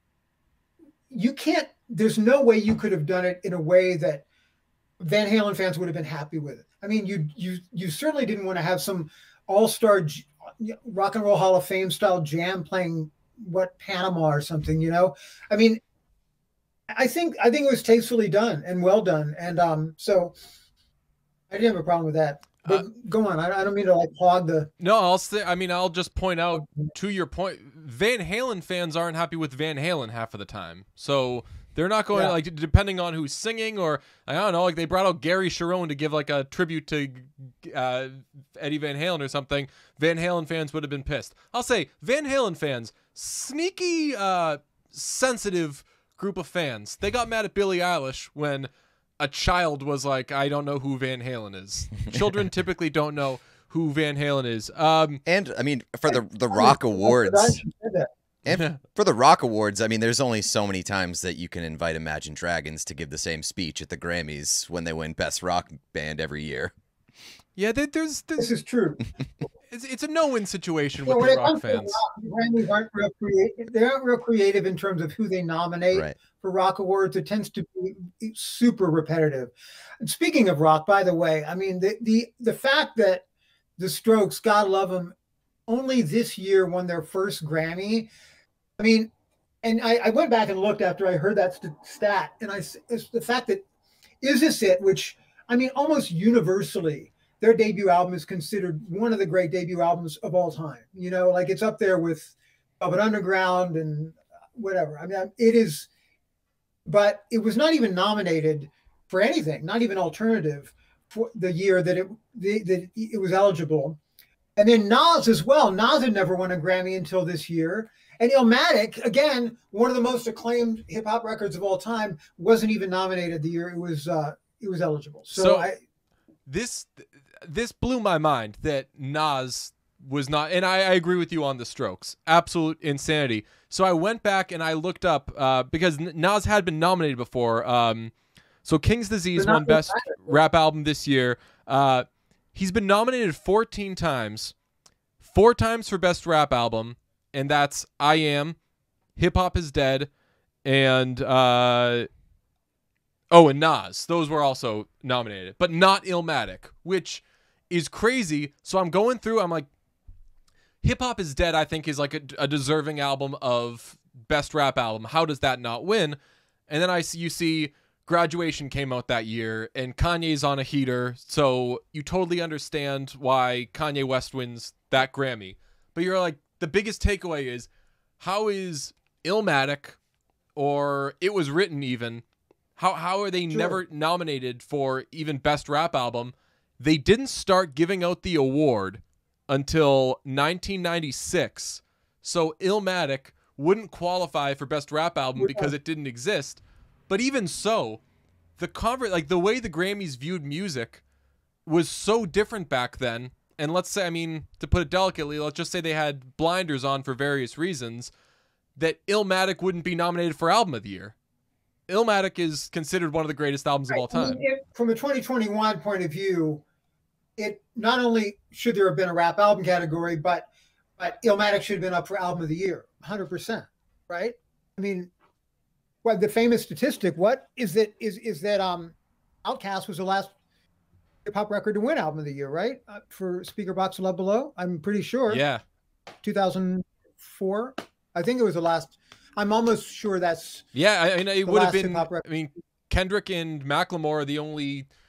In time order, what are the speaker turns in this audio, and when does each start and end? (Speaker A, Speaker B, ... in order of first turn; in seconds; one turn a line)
Speaker A: 1.1-4.2
Speaker A: 5.0-15.8
Speaker A: 16.9-20.3
Speaker A: 21.5-24.7
Speaker B: 24.8-55.2
Speaker C: 55.3-57.6
Speaker A: 56.1-58.1
Speaker C: 58.5-66.7
Speaker B: 58.5-58.8
Speaker B: 67.6-68.5
Speaker A: 68.4-69.0
Speaker B: 69.7-72.0
Speaker A: 71.1-83.2
Speaker A: 83.8-85.1
Speaker A: 85.7-88.1
Speaker A: 88.8-89.1
Speaker A: 89.6-93.6
Speaker A: 94.2-105.9
Speaker A: 106.9-114.0
Speaker A: 114.6-125.8
Speaker B: 125.3-125.7
Speaker B: 126.5-138.1
Speaker B: 138.6-144.6
Speaker A: 139.4-140.2
Speaker B: 145.2-148.6
Speaker B: 149.2-150.1
Speaker B: 150.6-152.1
Speaker B: 153.3-159.7
Speaker B: 160.8-166.2
Speaker B: 166.7-177.7
Speaker B: 178.2-180.0
Speaker B: 180.6-182.2
Speaker B: 182.8-198.0
Speaker A: 183.5-183.8
Speaker A: 195.4-195.7
Speaker B: 198.6-201.0
Speaker B: 201.7-208.1
Speaker B: 208.8-211.1
Speaker B: 211.9-214.4
Speaker A: 213.9-216.6
Speaker A: 217.4-220.5
Speaker A: 221.0-225.1
Speaker A: 226.0-230.3
Speaker A: 231.3-235.4
Speaker B: 235.3-235.6
Speaker A: 236.2-240.7
Speaker B: 240.8-244.9
Speaker A: 241.4-242.2